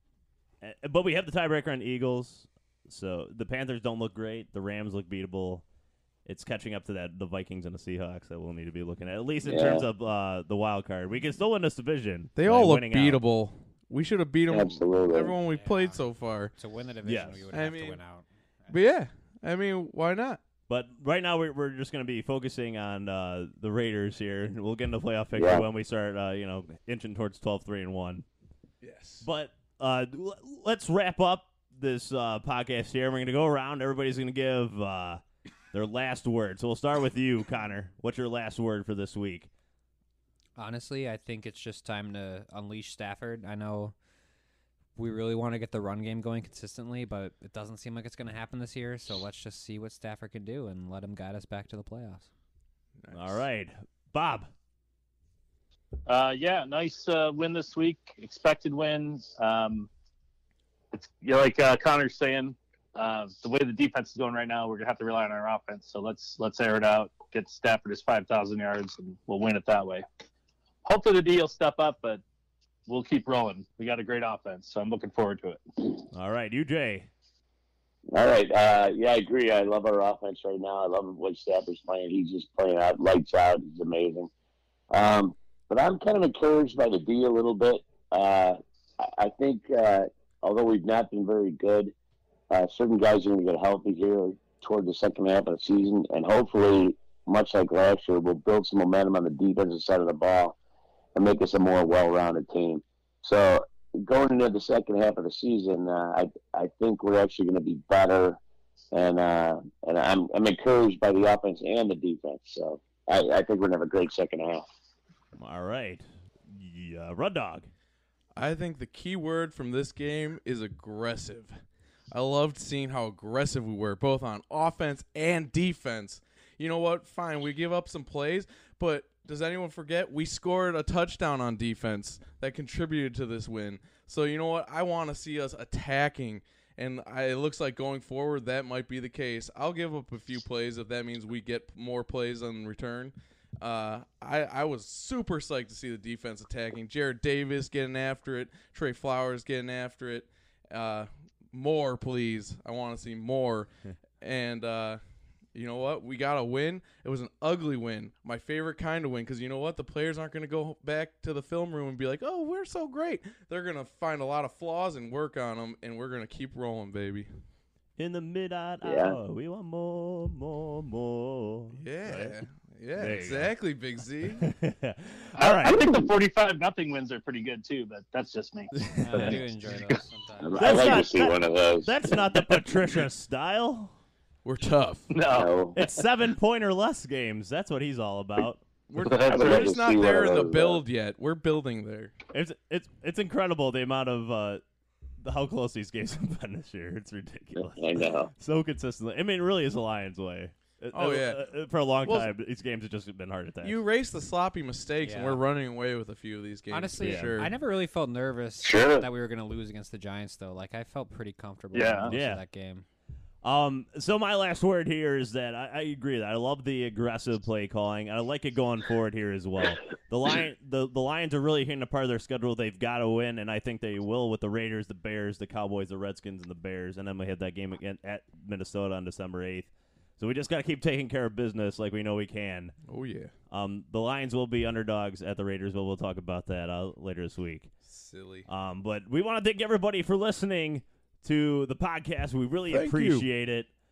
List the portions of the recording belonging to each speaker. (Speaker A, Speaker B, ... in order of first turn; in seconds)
Speaker A: 0.6-5.6, 6.3-13.2, 17.0-17.4, 20.7-28.2, 29.2-35.2, 35.7-39.5, 53.1-54.5, 76.1-77.1, 115.3-117.7, 168.0-172.4, 173.0-173.5, 174.4-175.8, 178.8-179.4, 180.6-183.9, 185.8-188.6, 192.3-194.6, 195.2-203.8, 207.0-207.5, 212.1-212.4, 213.4-232.8, 233.5-237.7, 238.5-243.7
Speaker B: 9.4-9.8, 14.5-15.3, 25.4-25.6, 78.1-84.3, 84.9-91.9, 92.5-100.6, 101.2-108.4, 108.9-114.7, 168.8-169.2, 180.4-182.2, 185.3-185.8, 189.3-190.8, 197.6-198.3, 208.6-209.1
Speaker C: 12.4-16.5, 17.5-18.0, 18.7-20.4, 28.8-29.2, 53.0-53.4, 118.4-121.5, 122.1-153.7, 154.2-155.0, 155.6-167.3, 171.8-174.5, 184.4-185.2, 188.9-192.1, 200.9-201.4, 202.0-202.3, 203.6-207.5, 232.9-233.3, 237.8-238.5, 242.7-243.3
Speaker D: 15.5-16.0, 16.6-18.7, 40.6-43.9, 45.0-52.3, 179.0-181.0, 205.0-205.4, 206.7-212.8
Speaker E: 56.1-59.9, 60.9-70.0, 70.8-72.2, 72.9-75.6, 175.4-179.8, 185.1-185.5, 189.0-189.7, 211.7-212.1